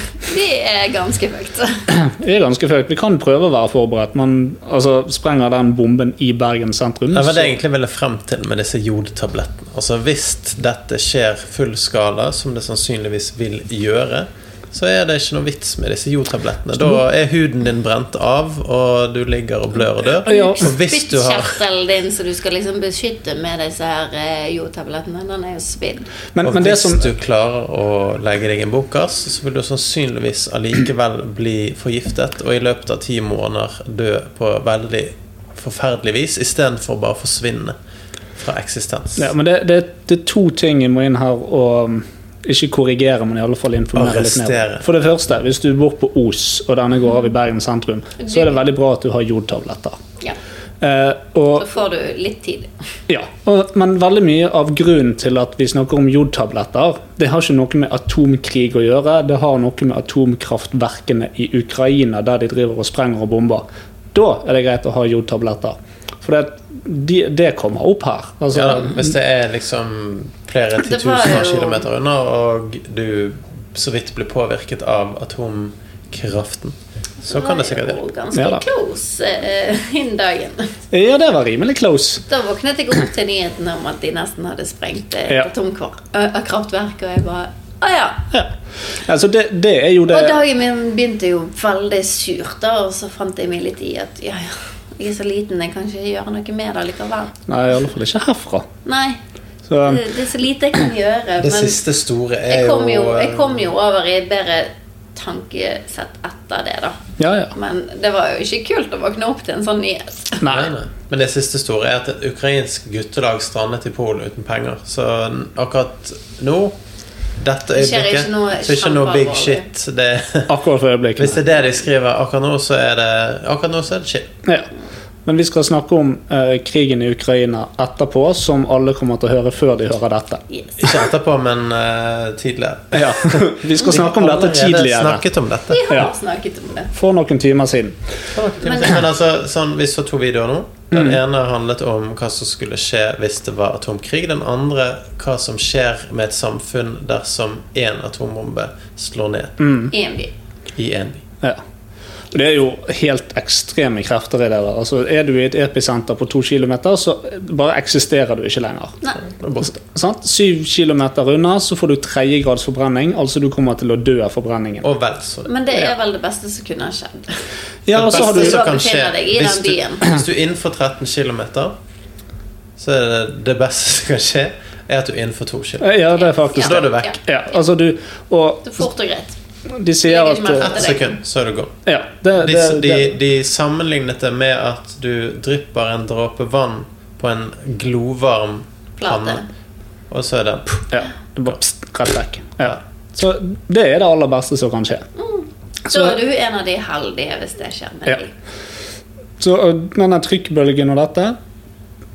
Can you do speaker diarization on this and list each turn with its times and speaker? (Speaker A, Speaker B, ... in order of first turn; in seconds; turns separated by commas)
Speaker A: 0.2-1.9, Speaker B: 1.9-7.5, Speaker C: 7.1-21.6, Speaker B: 20.2-20.6, Speaker A: 20.2-26.1, Speaker B: 26.3-27.1, Speaker C: 26.4-37.8, Speaker C: 38.4-39.3, Speaker B: 39.2-50.0, Speaker C: 43.9-44.8, Speaker A: 48.2-48.5, Speaker B: 50.8-51.7, Speaker A: 51.5-52.7, Speaker B: 53.1-69.1, Speaker C: 68.5-78.0, Speaker A: 70.8-71.8, Speaker A: 77.2-80.7, Speaker B: 78.3-78.6, Speaker B: 80.9-82.2, Speaker A: 82.3-88.2, Speaker B: 88.3-90.4, Speaker A: 90.1-97.3, Speaker B: 97.5-98.7, Speaker A: 98.8-99.2, Speaker B: 99.7-100.0, Speaker A: 99.8-101.8, Speaker C: 101.4-103.6, Speaker A: 102.5-107.0, Speaker B: 107.2-107.5, Speaker A: 107.5-110.4, Speaker B: 110.4-110.7, Speaker C: 110.5-116.7, Speaker C: 117.4-120.5, Speaker A: 117.7-119.7, Speaker B: 120.5-121.4, Speaker C: 121.2-124.3, Speaker B: 125.2-130.4, Speaker C: 130.8-135.8, Speaker B: 132.9-135.2, Speaker A: 135.7-136.9, Speaker B: 136.9-138.0, Speaker C: 138.3-149.6, Speaker A: 138.6-139.0, Speaker B: 140.9-141.2, Speaker B: 149.6-149.9, Speaker A: 149.9-150.3, Speaker C: 150.8-151.2, Speaker B: 152.3-159.0, Speaker C: 159.2-159.7, Speaker B: 159.6-164.9, Speaker C: 164.8-165.5, Speaker A: 165.4-167.4, Speaker B: 167.9-168.6, Speaker C: 167.9-171.7, Speaker A: 168.0-170.1, Speaker C: 172.8-176.0, Speaker B: 175.8-178.8, Speaker A: 176.1-177.2, Speaker C: 176.5-177.1, Speaker A: 178.6-179.3, Speaker B: 179.7-180.8, Speaker A: 180.0-181.2, Speaker C: 180.6-181.7, Speaker B: 181.8-183.2, Speaker C: 182.4-189.4, Speaker A: 189.0-189.4, Speaker C: 190.1-191.0, Speaker B: 190.9-195.1, Speaker A: 195.2-198.3, Speaker B: 195.9-196.2, Speaker B: 199.4-201.3